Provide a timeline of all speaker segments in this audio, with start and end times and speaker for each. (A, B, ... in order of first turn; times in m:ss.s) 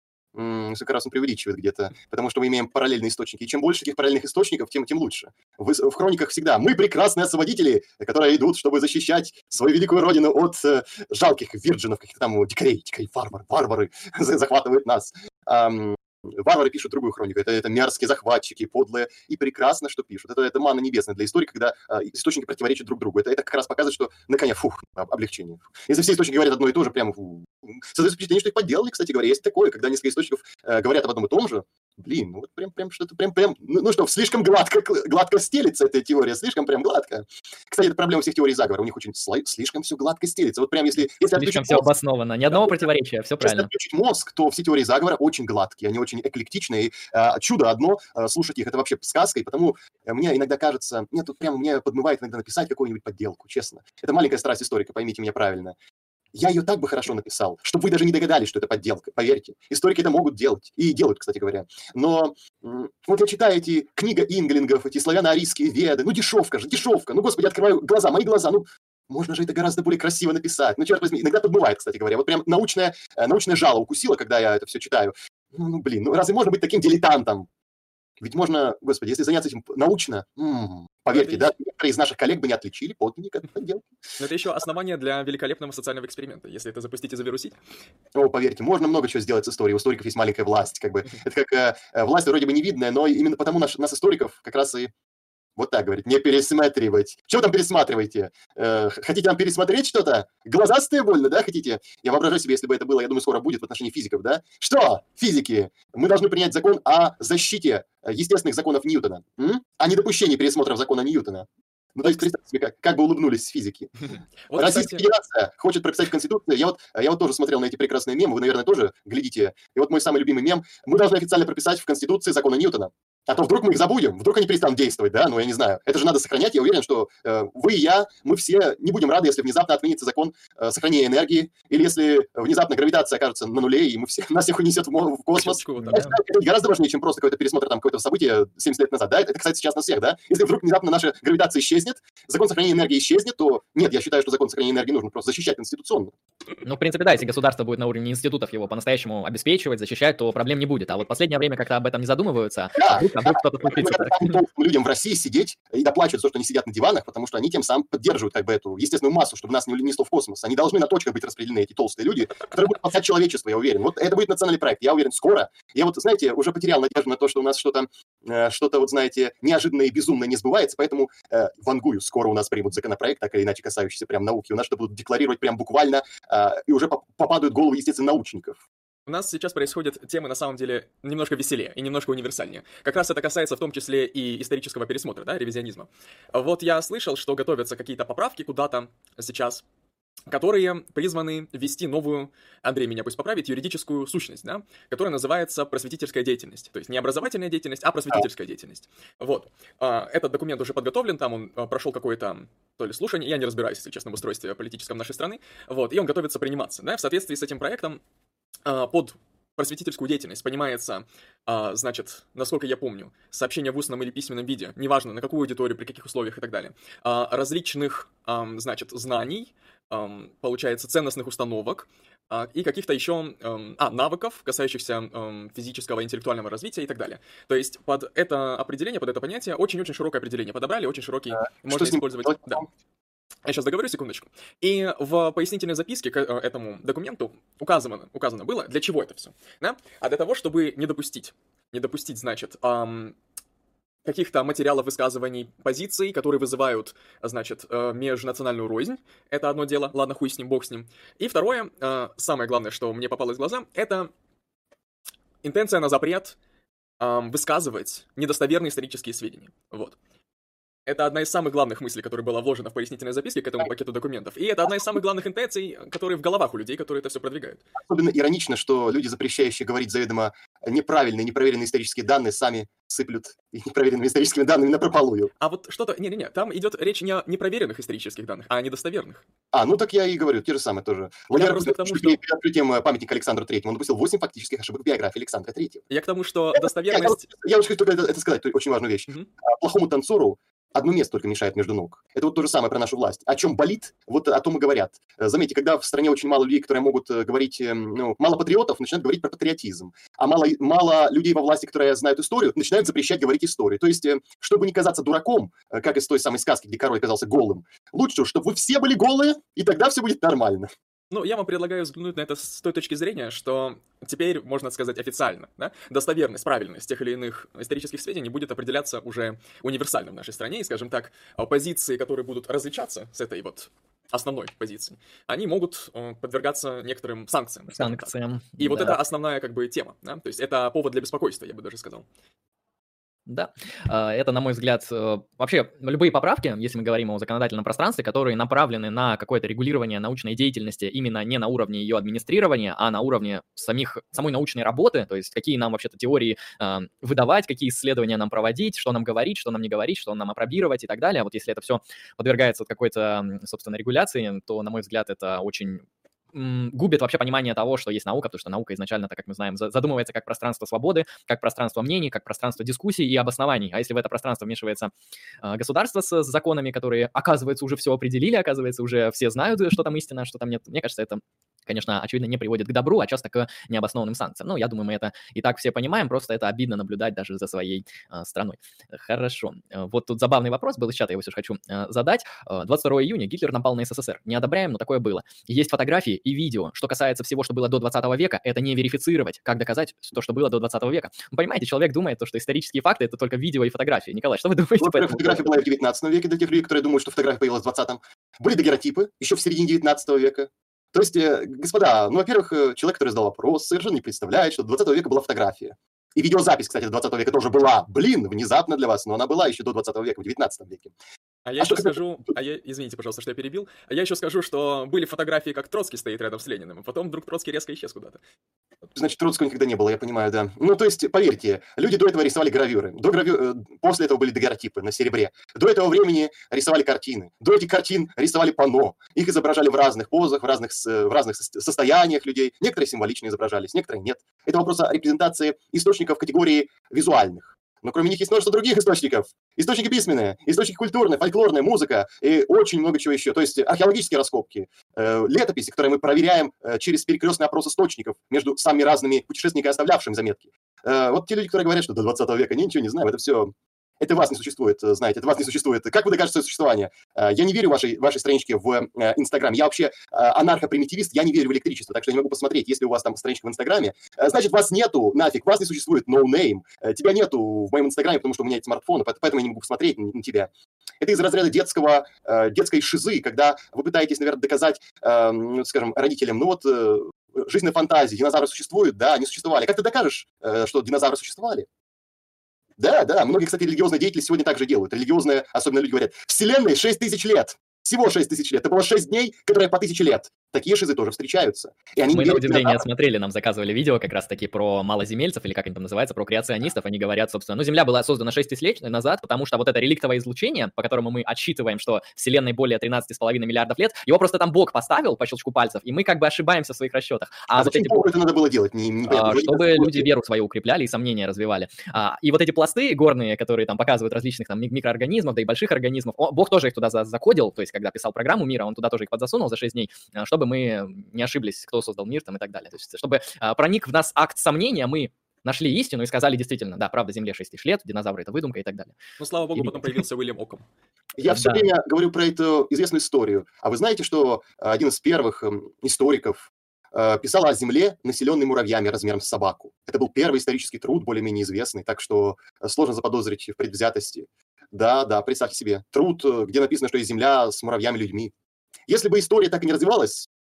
0:00.3-0:41.9 A
0:41.3-0:43.7 B
0:42.5-0:42.8 A
0:43.4-0:55.8 A
0:56.3-1:17.5 A
1:18.2-1:23.9 A
1:21.1-1:21.5 C
1:24.2-1:27.6 C
1:28.1-1:34.9 A
1:35.6-1:53.9 A
1:54.5-1:55.1 C
1:54.5-2:26.1 A
2:15.4-2:16.1 C
2:15.8-2:16.2 B
2:26.6-2:34.4 B
2:32.8-2:58.6 A
2:59.1-3:09.6 C
3:10.3-3:28.0 C
3:28.6-3:52.7 C
3:51.6-3:52.7 A
3:53.4-4:03.2 C
4:04.0-4:14.1 C
4:15.4-4:16.4 C
4:17.0-4:20.0 C
4:20.9-4:27.6 C
4:27.8-4:35.3 A
4:35.4-4:39.2 C
4:39.5-4:45.8 A
4:41.3-4:42.2 C
4:45.9-4:47.3 C
4:46.6-5:10.7 A
5:11.1-5:32.1 C
5:27.8-5:29.0 B
5:33.3-6:04.9 B
6:05.4-6:35.5 B
6:34.8-6:50.9 A
6:51.4-6:58.2 C
6:51.6-6:52.0 A
6:59.0-8:01.7 A
8:02.8-8:12.8 A
8:12.1-8:28.1 B
8:27.6-8:30.1 A
8:29.1-8:49.0 B
8:49.2-8:50.6 C
8:49.6-8:49.8 B
8:51.2-9:08.3 A
8:51.3-8:51.7 B
9:08.9-9:10.3 A